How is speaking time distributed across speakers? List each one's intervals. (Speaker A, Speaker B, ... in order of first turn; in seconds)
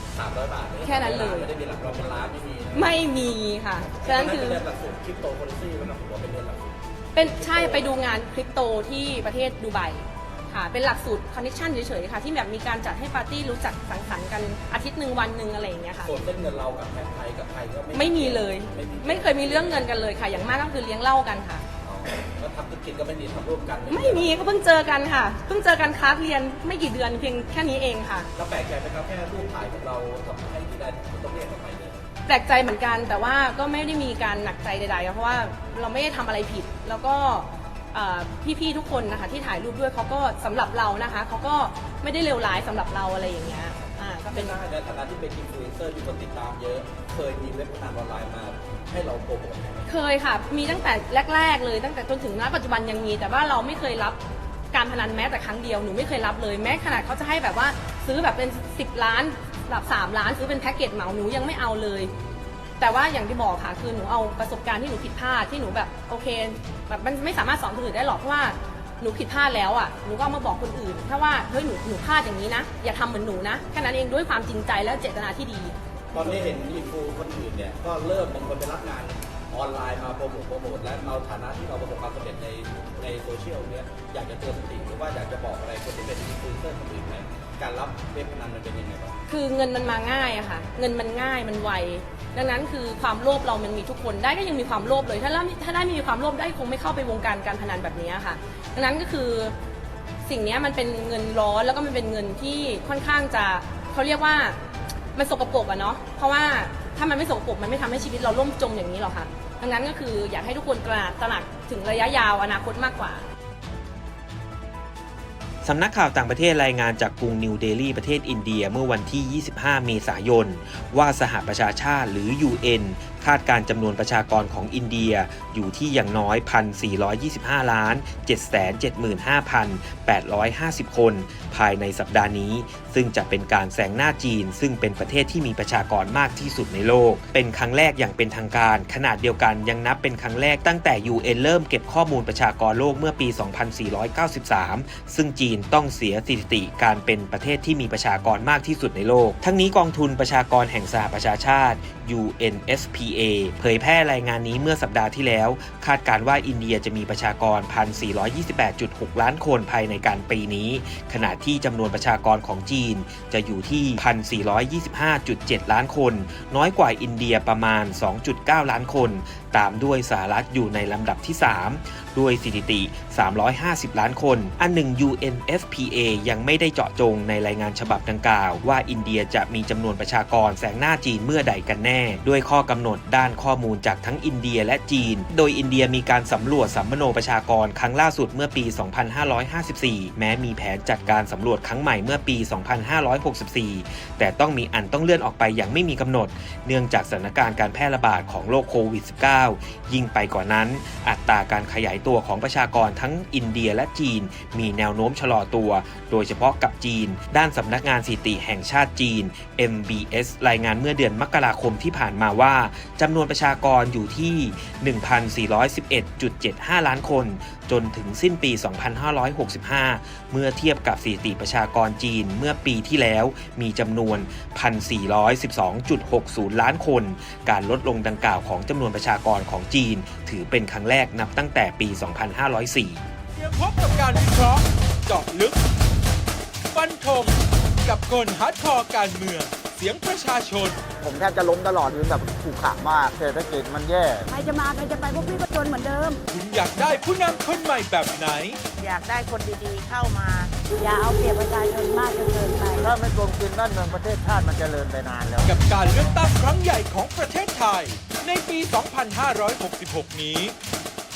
Speaker A: 0.1-8.0, 16.0-19.9, 21.8-24.5, 28.3-32.0, 44.3-49.9, 76.1-89.2
Speaker B: 0.8-1.5, 2.7-4.6, 7.1-16.1, 17.9-21.6, 23.9-28.3, 32.2-44.5, 49.9-54.2, 54.7-62.1, 62.8-75.8, 89.3-99.5, 100.2-104.6, 105.1-113.2
Speaker C: 115.6-233.0
Speaker D: 233.3-235.6, 236.7-240.8, 246.3-248.6, 255.4-260.6
Speaker E: 241.0-244.3, 252.8-255.5
Speaker F: 244.3-246.2, 248.8-252.8